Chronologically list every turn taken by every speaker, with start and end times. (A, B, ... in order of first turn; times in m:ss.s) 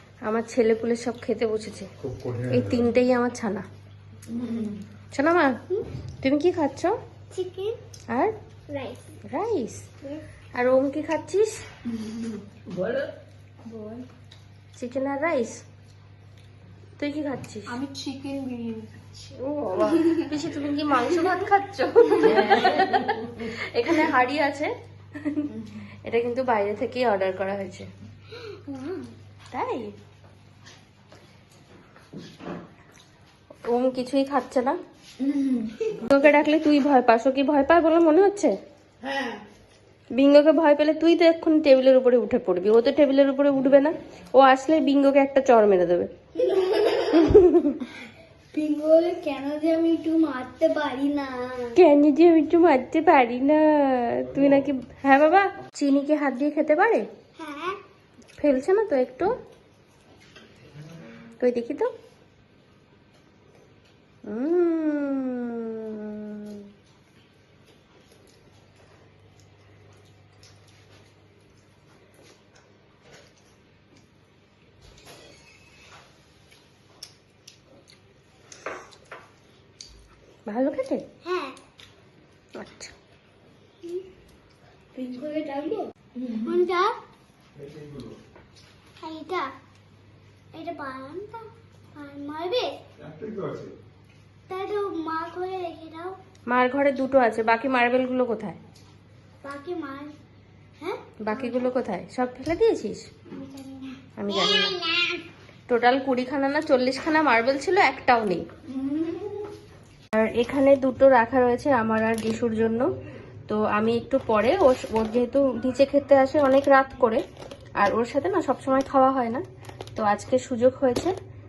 0:00.2-0:01.9 A
0:02.0-0:02.8 B
0:02.5-0:03.6 A
0:04.3-0:04.8 C
0:05.1-0:05.6 A
0:06.2-0:06.9 A
0:07.3-0:07.8 D
0:08.7-0:09.2 D
0:09.3-0:09.9 A
0:10.6-0:11.5 A
0:12.1-0:13.1 C
0:13.7-0:14.0 C
0:14.8-0:15.6 A
0:17.0-0:17.8 A
0:17.7-0:20.3 C
0:19.4-0:27.9 A
0:22.1-0:23.3 C
0:28.3-0:29.1 D
0:29.5-0:29.9 A
0:33.7-0:34.8 A
0:35.2-0:35.9 C
0:35.9-0:38.5 A
0:39.0-0:39.3 C
0:40.2-0:46.1 A
0:46.4-0:47.1 D
0:47.1-0:47.9 A
0:48.5-0:51.8 D
0:51.8-0:57.0 A
0:57.4-0:57.8 D
0:58.4-0:59.3 A
1:01.4-1:01.9 A
1:04.3-1:06.7 A
1:20.5-1:21.0 A
1:21.2-1:21.6 D
1:22.6-1:22.9 A
1:25.0-1:27.0 D
1:27.6-1:28.1 B
1:29.0-1:29.5 D
1:30.5-1:32.8 D
1:33.0-1:33.7 B
1:34.5-1:36.2 D
1:36.5-1:38.6 A
1:39.4-1:40.1 D
1:40.8-1:41.7 D
1:41.2-1:43.1 A
1:43.3-1:45.2 D
1:44.2-1:44.8 A
1:45.7-1:48.4 A
1:50.1-1:52.9 A
1:53.5-1:57.2 A
1:57.8-1:59.4 A
2:00.0-2:01.1 A